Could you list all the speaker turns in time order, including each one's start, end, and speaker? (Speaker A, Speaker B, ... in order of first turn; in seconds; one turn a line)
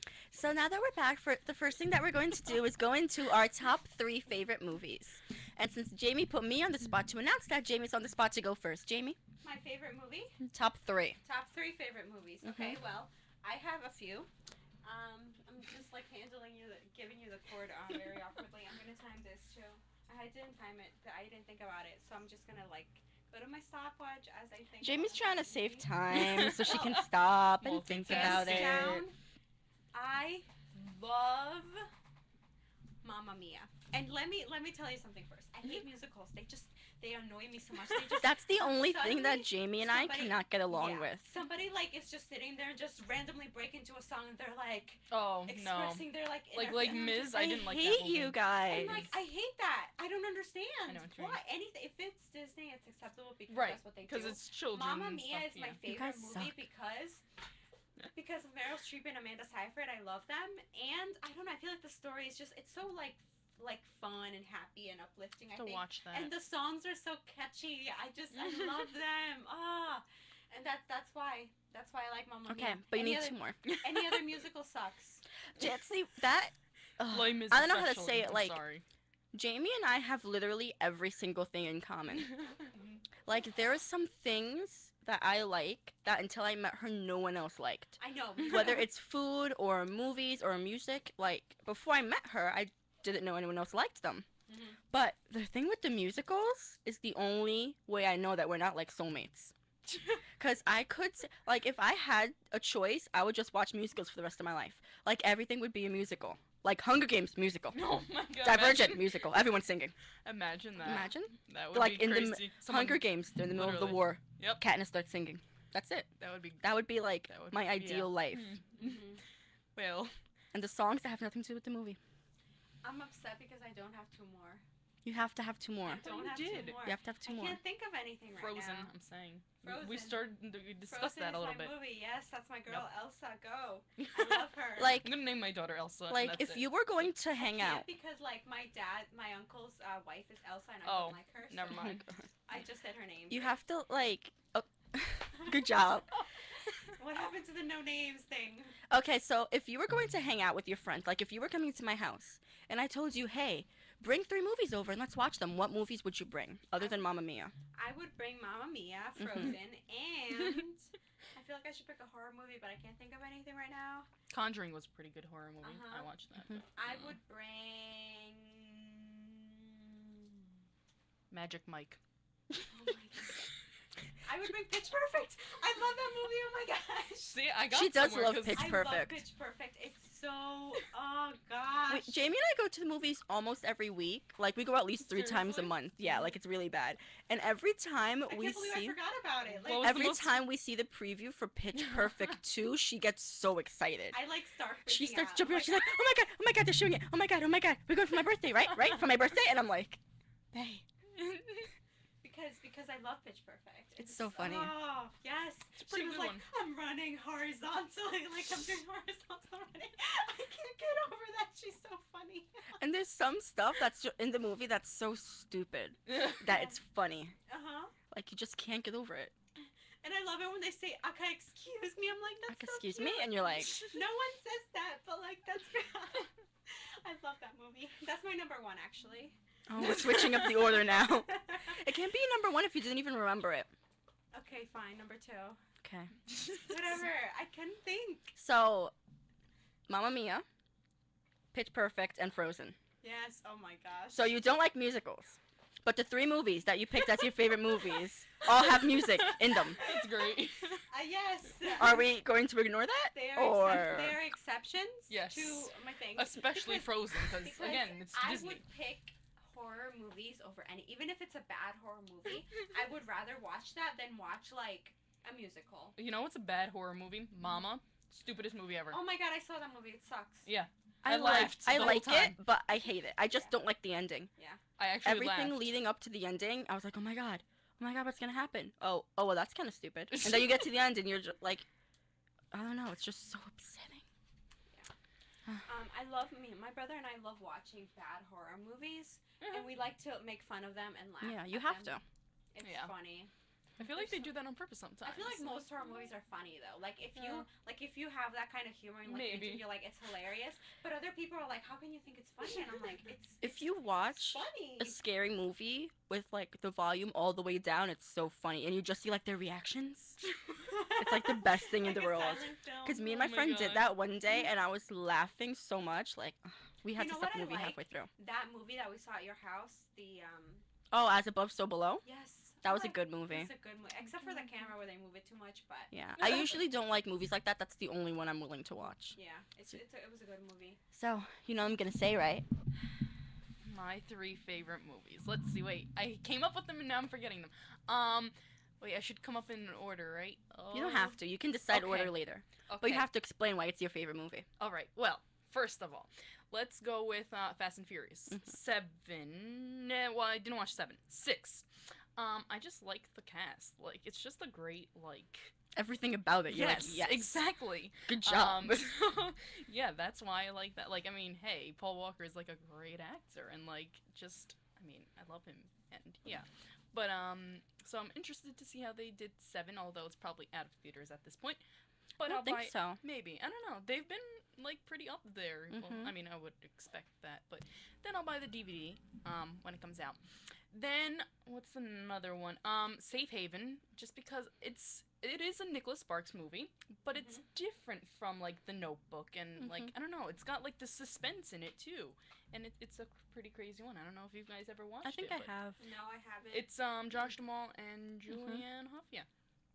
Speaker A: 0.3-9.2
Speaker B: 9.4-10.4
Speaker A: 10.5-11.2
Speaker B: 11.2-14.3
Speaker A: 12.4-12.8
Speaker B: 14.8-25.9
Speaker A: 24.8-29.0
Speaker C: 26.1-29.0
Speaker B: 28.1-29.1
Speaker B: 29.9-31.9
Speaker B: 33.0-47.4
Speaker A: 38.2-41.3
Speaker C: 45.1-48.4
Speaker A: 47.1-49.1
Speaker B: 48.7-57.2
Speaker C: 50.9-51.4
Speaker C: 53.5-55.8
Speaker A: 55.8-56.6
Speaker B: 58.1-75.2
Speaker C: 65.5-66.3
Speaker C: 68.3-68.8
Speaker A: 72.5-73.6
Speaker C: 73.6-74.2
Speaker A: 75.5-78.6
Speaker C: 77.1-78.8
Speaker A: 79.3-82.3
Speaker B: 82.7-83.0
Speaker A: 83.2-94.3
Speaker B: 88.0-88.8
Speaker B: 94.5-94.8
Speaker A: 94.9-99.5
Speaker A: 100.4-109.9
Speaker C: 107.7-109.4
Speaker C: 110.2-114.6
Speaker A: 110.8-118.6
Speaker C: 116.2-119.1
Speaker B: 118.8-119.2
Speaker C: 119.7-120.2
Speaker A: 120.5-122.0
Speaker B: 122.8-124.6
Speaker A: 125.0-126.1
Speaker B: 125.8-128.9
Speaker C: 126.0-126.8
Speaker A: 126.8-127.6
Speaker C: 128.3-131.7
Speaker B: 129.6-135.0
Speaker C: 134.0-136.7
Speaker A: 134.8-135.1
Speaker A: 136.1-137.8
Speaker B: 137.3-143.6
Speaker C: 140.8-142.1
Speaker A: 141.7-142.1
Speaker A: 143.3-146.1
Speaker B: 146.9-148.8
Speaker A: 148.9-157.5
Speaker B: 157.7-164.1
Speaker C: 164.3-167.1
Speaker B: 165.6-166.1
Speaker B: 166.7-170.3
Speaker C: 171.3-172.0
Speaker B: 172.7-173.4
Speaker B: 174.2-177.4
Speaker C: 177.2-178.8
Speaker A: 177.7-179.2
Speaker B: 178.5-182.2
Speaker A: 181.9-189.0
Speaker C: 185.0-185.7
Speaker B: 188.2-190.1
Speaker C: 189.4-190.4
Speaker A: 189.8-194.2
Speaker B: 194.1-196.2
Speaker A: 194.9-200.0
Speaker A: 200.5-200.8
Speaker C: 201.2-201.7
Speaker B: 202.2-212.8
Speaker A: 204.0-204.9
Speaker C: 205.8-206.4
Speaker A: 212.8-217.3
Speaker C: 216.1-216.4
Speaker B: 216.5-216.8
Speaker B: 217.5-217.9
Speaker A: 218.1-219.3
Speaker B: 219.6-231.8
Speaker A: 222.5-223.8
Speaker A: 229.7-233.7
Speaker C: 229.8-230.6
Speaker B: 234.3-235.6
Speaker A: 235.8-236.2
Speaker B: 236.6-238.3
Speaker A: 238.3-238.9
Speaker A: 239.9-240.4
Speaker A: 241.5-242.8
Speaker B: 243.0-244.3
Speaker A: 244.1-249.8
Speaker C: 248.7-250.8
Speaker B: 249.8-250.3
Speaker B: 250.9-252.1
Speaker A: 251.8-254.2
Speaker B: 253.1-265.9
Speaker C: 255.1-258.6
Speaker C: 266.0-269.0
Speaker B: 268.9-270.5
Speaker C: 270.4-272.4
Speaker A: 271.0-274.3
Speaker C: 274.8-275.7
Speaker A: 275.0-281.6
Speaker C: 280.1-280.6
Speaker A: 282.5-284.0
Speaker B: 285.6-291.9
Speaker C: 289.4-289.7
Speaker A: 291.2-292.0
Speaker B: 292.5-293.3
Speaker C: 292.6-292.9
Speaker C: 293.8-295.7
Speaker B: 293.8-294.3
Speaker B: 295.0-305.0
Speaker C: 297.1-297.4
Speaker C: 299.0-299.8
Speaker A: 303.4-310.2
Speaker B: 310.6-313.1
Speaker A: 310.9-318.1
Speaker C: 312.9-314.0
Speaker B: 316.9-320.6
Speaker A: 320.9-322.0
Speaker B: 322.0-325.9
Speaker A: 322.6-323.5
Speaker A: 325.9-329.2
Speaker C: 326.2-326.5
Speaker B: 329.1-330.8
Speaker A: 330.9-332.4
Speaker C: 333.6-341.2
Speaker A: 340.7-344.4
Speaker C: 341.7-343.1
Speaker C: 344.6-355.5
Speaker A: 355.7-357.4
Speaker C: 356.5-371.6
Speaker A: 358.1-358.9
Speaker C: 372.2-380.2
Speaker A: 372.2-373.0
Speaker A: 375.7-376.1
Speaker C: 380.7-395.5
Speaker B: 387.1-387.4
Speaker A: 389.6-389.9
Speaker A: 395.0-395.8
Speaker B: 395.8-396.7
Speaker C: 396.5-399.3
Speaker A: 398.3-398.6